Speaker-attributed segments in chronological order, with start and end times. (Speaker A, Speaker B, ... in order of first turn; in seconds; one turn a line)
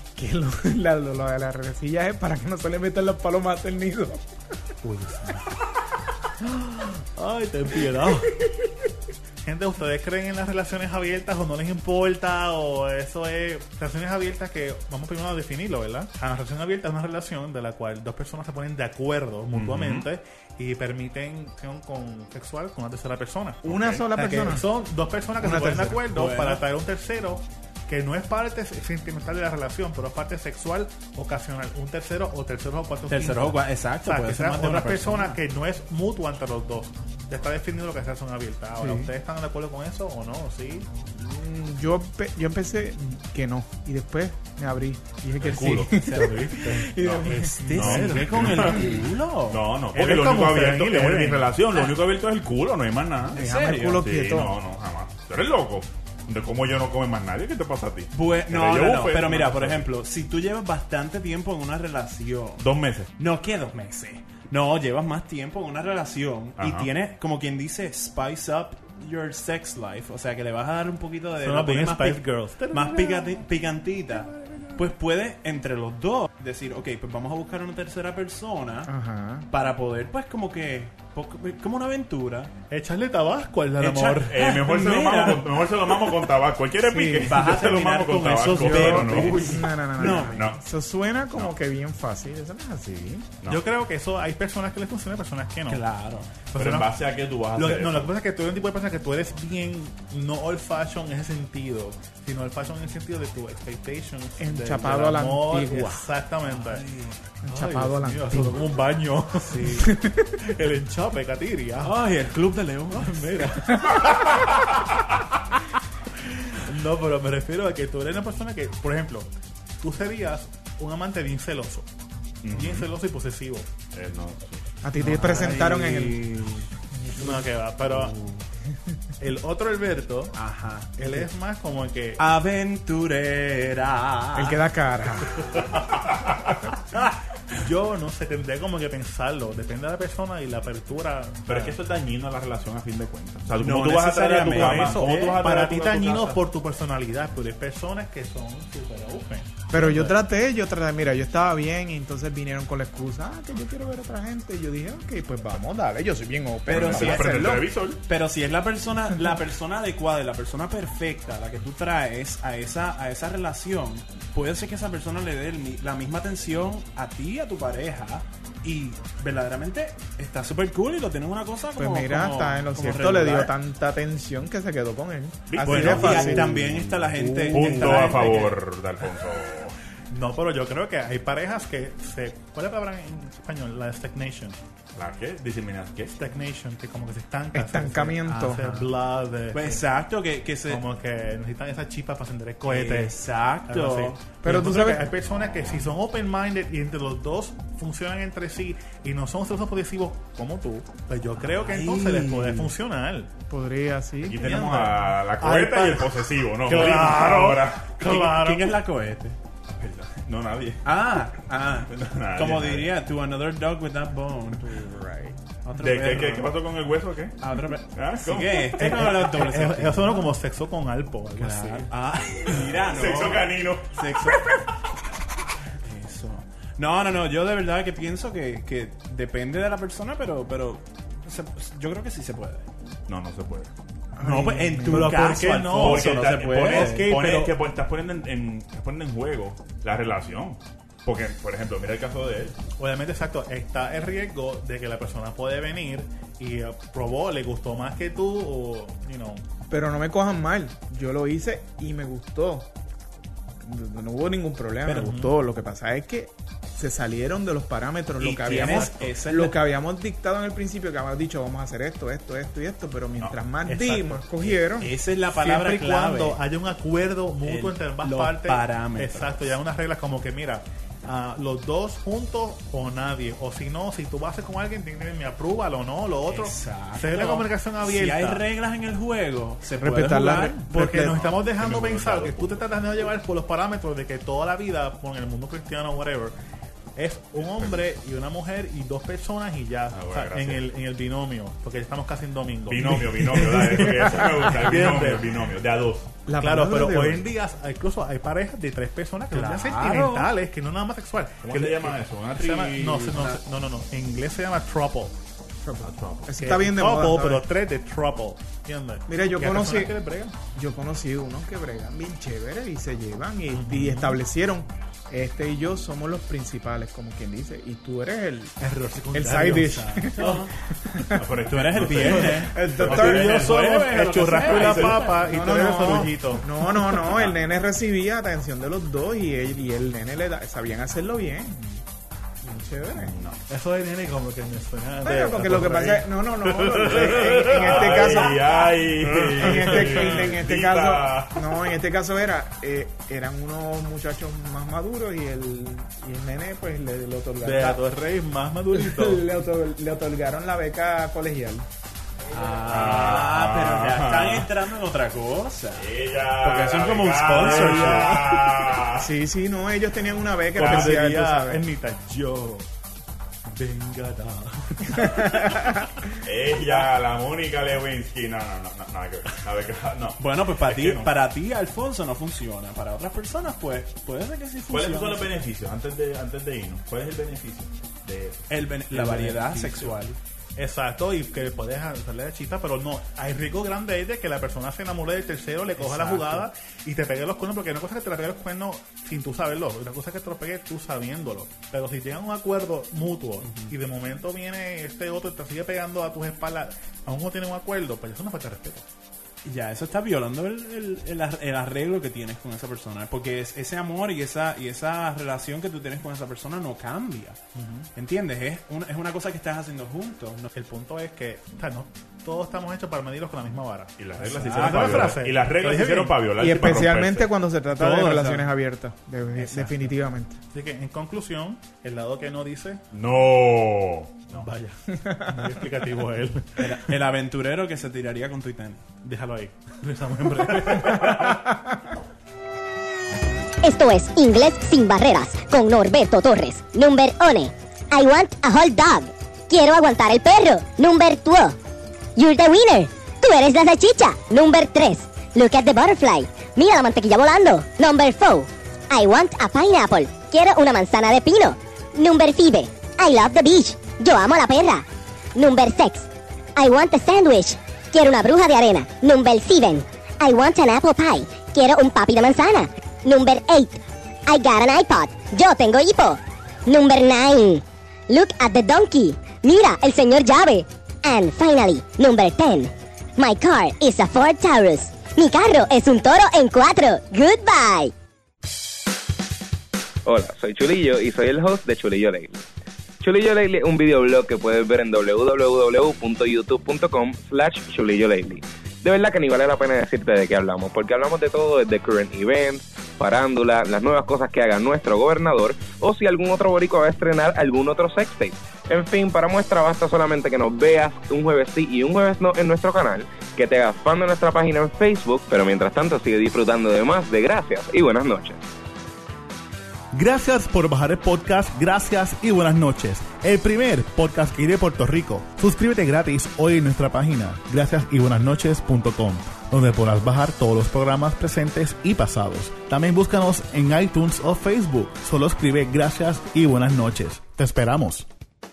Speaker A: 0.2-4.2
Speaker B: 4.8-5.6
Speaker B: 6.4-8.3
Speaker B: 9.4-40.9
Speaker C: 19.5-20.1
Speaker A: 23.6-24.7
Speaker C: 23.7-24.0
Speaker A: 25.4-26.0
Speaker D: 26.1-26.6
Speaker D: 33.1-35.4
Speaker A: 41.1-47.5
Speaker C: 45.4-46.0
Speaker B: 45.9-48.9
Speaker C: 47.0-48.9
Speaker D: 47.5-49.6
Speaker C: 49.5-53.4
Speaker B: 49.9-51.5
Speaker D: 53.3-54.0
Speaker A: 53.4-54.5
Speaker C: 54.0-59.9
Speaker D: 58.1-62.6
Speaker C: 62.6-63.1
Speaker D: 63.2-78.9
Speaker C: 66.6-66.9
Speaker B: 71.4-74.9
Speaker A: 78.9-79.5
Speaker D: 79.5-82.5
Speaker B: 82.7-84.4
Speaker D: 83.8-85.7
Speaker C: 84.3-90.6
Speaker A: 86.9-87.4
Speaker D: 87.2-90.4
Speaker A: 88.7-93.3
Speaker B: 93.5-95.8
Speaker D: 95.7-96.3
Speaker B: 96.5-97.0
Speaker C: 96.5-98.1
Speaker B: 97.5-106.9
Speaker A: 104.4-106.0
Speaker D: 106.5-107.2
Speaker A: 107.4-108.7
Speaker B: 107.5-109.8
Speaker D: 109.5-109.9
Speaker A: 109.7-110.4
Speaker B: 110.4-112.0
Speaker D: 111.8-113.3
Speaker B: 112.9-114.6
Speaker B: 116.5-121.9
Speaker C: 122.4-122.9
Speaker B: 122.5-123.7
Speaker C: 123.9-124.7
Speaker A: 124.8-126.2
Speaker D: 125.0-126.7
Speaker B: 127.2-128.2
Speaker D: 127.9-128.4
Speaker B: 129.2-130.3
Speaker D: 130.3-130.9
Speaker B: 131.0-132.2
Speaker A: 131.0-131.2
Speaker D: 132.2-134.6
Speaker A: 134.3-135.6
Speaker B: 137.5-141.8
Speaker C: 141.5-146.4
Speaker D: 143.6-145.4
Speaker B: 144.5-150.1
Speaker A: 149.7-157.7
Speaker D: 156.7-157.3
Speaker C: 156.7-158.0
Speaker D: 158.1-173.5
Speaker A: 171.8-178.2
Speaker C: 175.5-176.5
Speaker D: 175.6-178.6
Speaker C: 177.5-179.8
Speaker B: 180.1-184.6
Speaker C: 185.0-186.2
Speaker B: 186.2-189.8
Speaker A: 187.5-188.8
Speaker D: 189.5-190.8
Speaker B: 190.7-203.3
Speaker D: 192.7-194.2
Speaker A: 194.4-195.1
Speaker D: 201.4-202.7
Speaker A: 203.5-204.6
Speaker C: 204.2-207.9
Speaker B: 204.4-208.8
Speaker D: 208.0-209.4
Speaker C: 209.7-211.2
Speaker D: 210.8-214.7
Speaker C: 211.9-213.0
Speaker A: 214.6-215.4
Speaker D: 215.7-216.5
Speaker C: 215.8-217.4
Speaker D: 217.4-220.3
Speaker C: 217.9-218.8
Speaker B: 218.8-221.9
Speaker D: 221.3-224.6
Speaker C: 222.5-224.0
Speaker D: 225.8-232.7
Speaker C: 233.1-233.7
Speaker A: 234.2-235.2
Speaker D: 234.2-237.1
Speaker B: 234.9-237.5
Speaker C: 235.8-242.6
Speaker B: 242.8-249.4
Speaker A: 249.7-252.7
Speaker A: 253.6-264.9
Speaker B: 254.9-255.3
Speaker D: 254.9-255.2
Speaker D: 258.2-259.6
Speaker B: 258.5-258.9
Speaker B: 263.7-264.3
Speaker D: 264.4-266.4
Speaker B: 265.3-278.4
Speaker D: 267.4-269.6
Speaker D: 276.3-280.7
Speaker A: 279.8-281.2
Speaker B: 280.7-286.4
Speaker C: 281.1-282.6
Speaker B: 287.0-295.4
Speaker C: 289.9-290.7
Speaker C: 292.7-296.1
Speaker A: 293.7-294.3
Speaker A: 296.3-297.2
Speaker B: 296.4-305.1
Speaker D: 299.3-300.3
Speaker C: 301.4-303.2
Speaker D: 302.9-303.4
Speaker A: 305.6-307.4
Speaker C: 305.8-306.3
Speaker B: 306.4-310.4
Speaker A: 309.1-309.9
Speaker A: 310.5-318.6
Speaker B: 313.5-314.2
Speaker B: 318.6-320.5
Speaker A: 319.1-321.2
Speaker D: 320.2-320.5
Speaker C: 321.1-323.4
Speaker D: 321.5-325.2
Speaker B: 321.8-327.1
Speaker A: 322.4-323.3
Speaker C: 324.4-325.1
Speaker A: 325.2-331.8
Speaker A: 332.4-333.2
Speaker C: 332.9-333.4
Speaker B: 333.5-338.2
Speaker A: 335.0-347.8
Speaker C: 336.9-341.6
Speaker B: 339.0-340.3
Speaker B: 347.4-349.3
Speaker A: 348.7-351.7
Speaker D: 352.3-358.2
Speaker C: 352.7-354.5
Speaker C: 355.8-359.1
Speaker B: 357.4-358.4
Speaker A: 358.9-361.6
Speaker B: 360.6-362.7
Speaker C: 360.6-361.0
Speaker B: 363.4-365.8
Speaker C: 366.2-371.1
Speaker D: 370.2-375.3
Speaker C: 374.7-378.5
Speaker D: 378.5-380.2
Speaker B: 378.9-380.0
Speaker B: 380.6-398.9
Speaker D: 385.8-386.5
Speaker D: 393.4-393.7
Speaker D: 399.4-407.4
Speaker B: 407.6-407.9
Speaker D: 408.0-410.5
Speaker B: 410.5-416.3
Speaker C: 414.0-417.3
Speaker D: 414.4-415.2
Speaker A: 416.4-420.4
Speaker B: 417.8-418.4
Speaker D: 417.9-418.4
Speaker B: 419.4-419.9
Speaker B: 420.5-422.8
Speaker C: 422.9-424.5
Speaker B: 424.3-426.9
Speaker D: 426.6-428.8
Speaker B: 429.0-431.5
Speaker E: 433.6-441.6
Speaker E: 442.2-454.8
Speaker E: 455.4-477.9
Speaker F: 480.1-482.4
Speaker F: 483.0-508.4
Speaker B: 509.9-528.1